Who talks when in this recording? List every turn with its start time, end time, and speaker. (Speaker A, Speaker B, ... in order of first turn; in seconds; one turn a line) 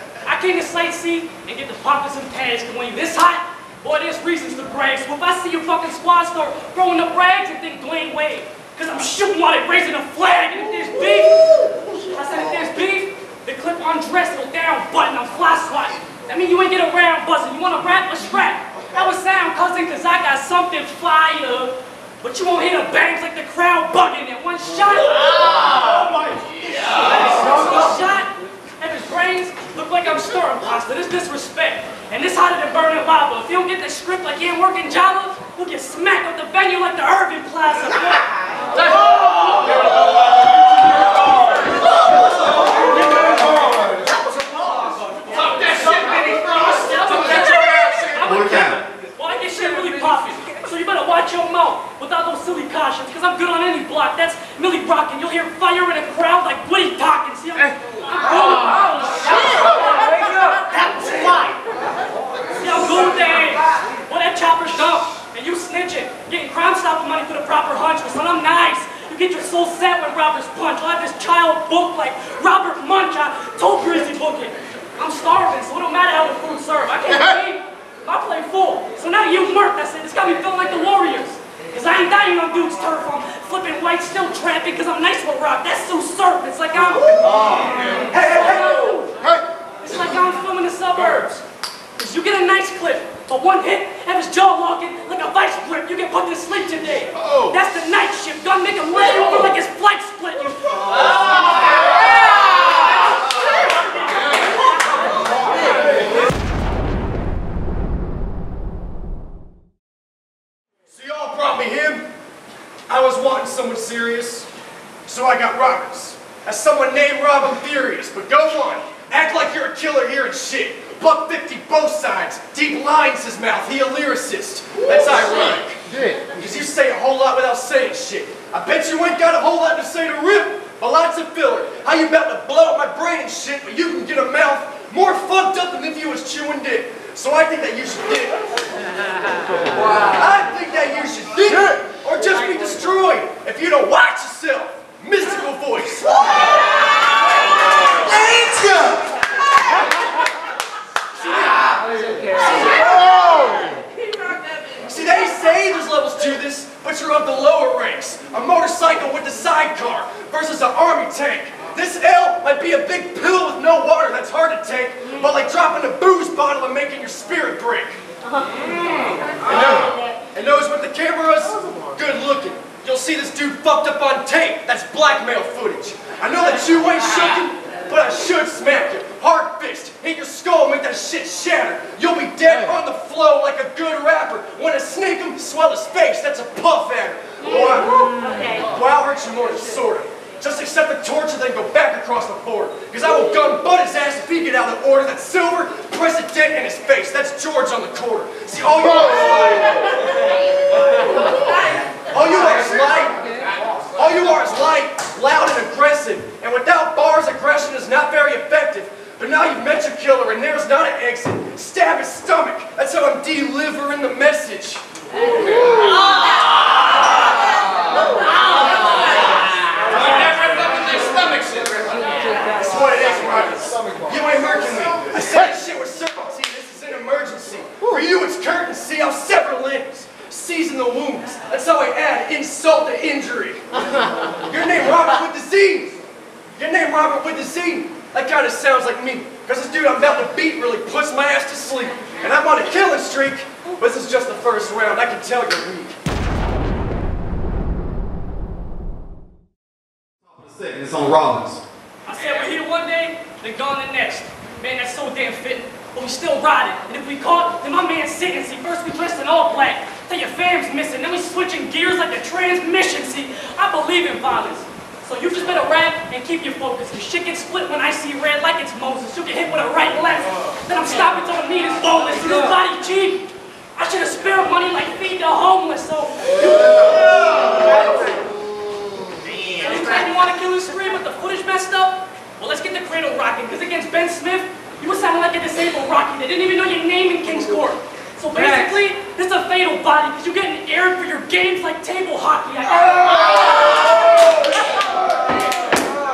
Speaker A: 0.2-26.1
Speaker A: 26.6-38.3
Speaker B: 39.5-41.4
Speaker B: 42.8-43.5
Speaker B: 44.0-45.1
Speaker C: 45.3-46.5
Speaker A: 45.6-61.0
Speaker D: 48.2-48.8
Speaker B: 61.0-61.4
Speaker A: 62.6-89.1
Speaker D: 87.3-87.8
Speaker B: 88.1-89.0
Speaker A: 89.8-91.4
Speaker A: 92.0-101.4
Speaker A: 103.2-104.3
Speaker B: 110.9-112.1
Speaker B: 112.9-114.5
Speaker B: 115.0-138.4
Speaker C: 139.8-140.2
Speaker B: 140.1-146.3
Speaker B: 148.2-148.7
Speaker B: 152.6-153.1
Speaker B: 154.7-168.0
Speaker B: 169.4-200.1
Speaker A: 201.2-201.9
Speaker B: 202.0-203.2
Speaker B: 203.9-214.8
Speaker C: 220.0-221.8
Speaker B: 222.6-233.6
Speaker B: 234.3-236.0
Speaker B: 236.5-245.9
Speaker D: 250.3-251.6
Speaker A: 252.0-278.1
Speaker A: 279.6-294.4